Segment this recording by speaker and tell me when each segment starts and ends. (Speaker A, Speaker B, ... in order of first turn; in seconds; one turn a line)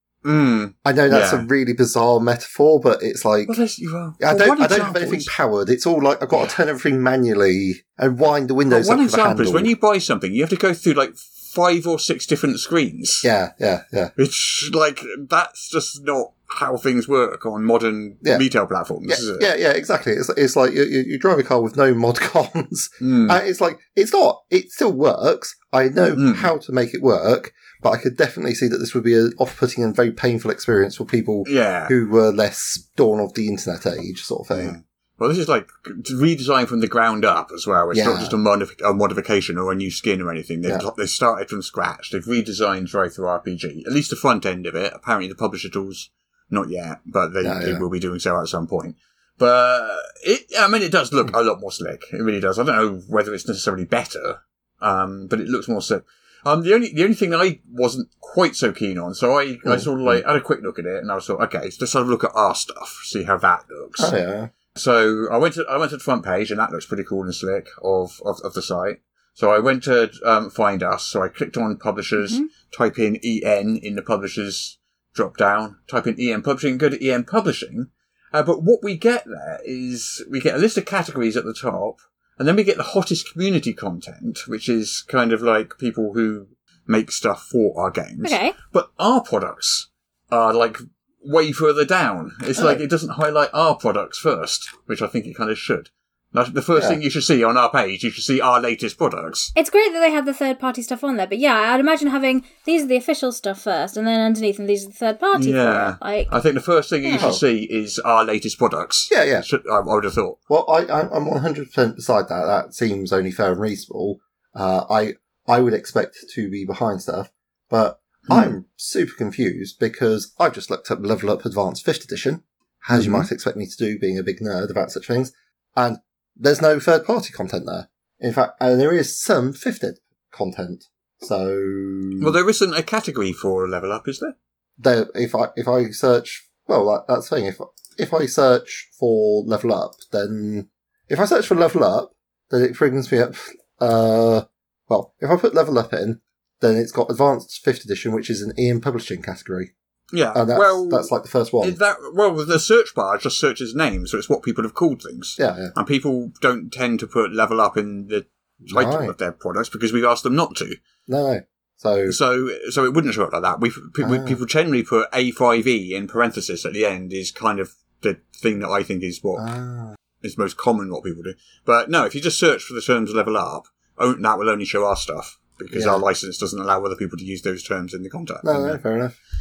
Speaker A: 0.2-1.5
Speaker B: 0.8-3.5
Speaker A: 3.5-5.3
Speaker B: 4.2-9.7
Speaker A: 8.7-13.3
Speaker B: 13.2-14.1
Speaker A: 14.2-19.5
Speaker B: 19.0-34.8
Speaker A: 23.0-23.4
Speaker A: 26.2-26.5
Speaker A: 31.4-31.9
Speaker A: 34.5-64.1
Speaker B: 37.9-38.3
Speaker B: 47.4-47.8
Speaker B: 59.6-60.2
Speaker B: 64.0-64.5
Speaker A: 64.7-99.5
Speaker C: 72.2-72.5
Speaker C: 88.2-88.5
Speaker B: 92.5-92.8
Speaker B: 96.7-97.0
Speaker C: 99.5-106.3
Speaker A: 105.3-110.4
Speaker C: 107.0-107.3
Speaker B: 107.2-107.4
Speaker B: 109.1-109.5
Speaker B: 110.5-132.4
Speaker A: 118.3-118.5
Speaker A: 122.9-123.3
Speaker A: 132.2-134.3
Speaker B: 134.8-149.7
Speaker A: 150.1-160.8
Speaker B: 150.3-151.8
Speaker B: 155.4-155.7
Speaker B: 158.6-159.1
Speaker B: 161.1-162.2
Speaker A: 162.1-169.4
Speaker B: 164.0-164.4
Speaker B: 169.4-169.9
Speaker A: 170.2-178.8
Speaker B: 175.7-176.0
Speaker B: 178.4-179.2